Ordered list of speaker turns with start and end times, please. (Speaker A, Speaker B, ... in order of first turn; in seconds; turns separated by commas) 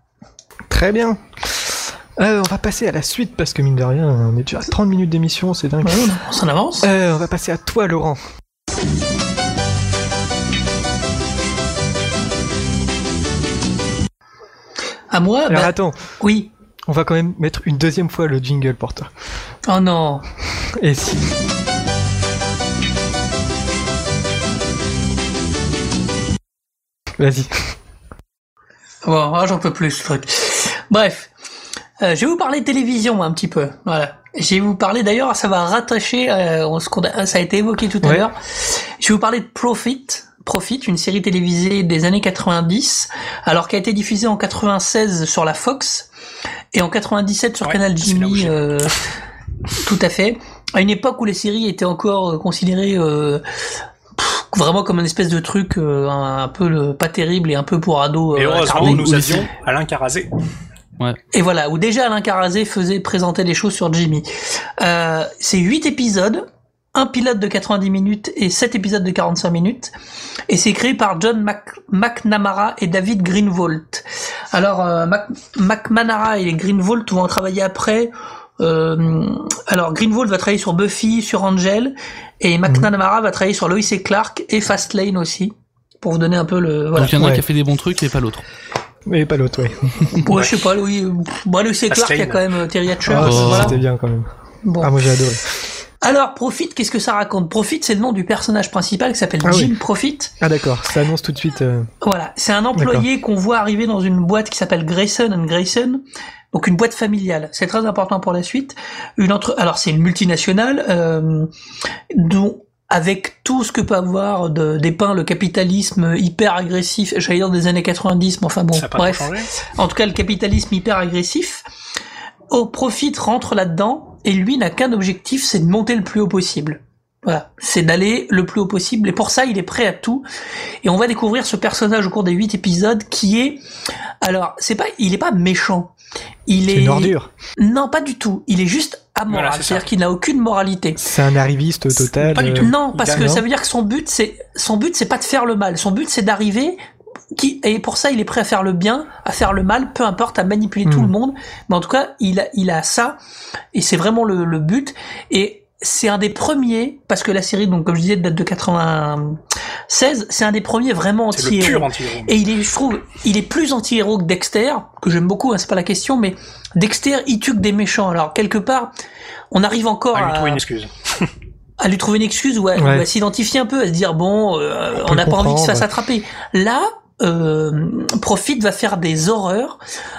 Speaker A: 0.7-6.1, Speaker B: 5.8-6.9, Speaker A: 6.8-8.2, Speaker B: 15.1-16.5, Speaker A: 15.5-16.0, Speaker A: 16.9-19.1, Speaker B: 19.7-20.3, Speaker A: 20.8-21.3, Speaker A: 27.2-27.5, Speaker B: 29.0-31.3, Speaker B: 32.0-46.1, Speaker B: 46.7-49.0, Speaker C: 47.6-48.5, Speaker B: 49.8-53.4, Speaker B: 54.2-59.1, Speaker C: 58.4-60.3, Speaker D: 58.7-59.5, Speaker B: 61.3-69.9, Speaker B: 70.5-87.2, Speaker D: 87.0-88.4, Speaker A: 87.1-87.4, Speaker A: 89.1-90.2, Speaker B: 90.2-93.8, Speaker C: 90.3-90.7, Speaker C: 91.9-92.5, Speaker A: 93.0-94.3, Speaker D: 93.2-93.8, Speaker B: 94.6-94.9, Speaker A: 94.8-95.5, Speaker B: 96.0-100.3, Speaker A: 99.4-99.7, Speaker A: 100.4-101.9, Speaker B: 102.0-106.0, Speaker A: 102.8-103.1, Speaker B: 106.5-111.5, Speaker B: 112.1-121.6, Speaker C: 118.7-119.5, Speaker B: 122.5-130.2, Speaker B: 130.8-133.6, Speaker B: 134.2-135.9, Speaker B: 136.5-141.0, Speaker A: 136.7-137.3, Speaker C: 139.3-139.9, Speaker A: 141.0-143.4, Speaker C: 142.2-143.3, Speaker B: 142.6-146.8, Speaker B: 147.3-153.2, Speaker A: 150.9-151.1, Speaker B: 153.7-168.9, Speaker C: 161.3-162.4, Speaker B: 169.5-170.6, Speaker C: 170.1-171.3, Speaker B: 171.8-179.8, Speaker A: 172.8-173.1, Speaker A: 175.0-175.9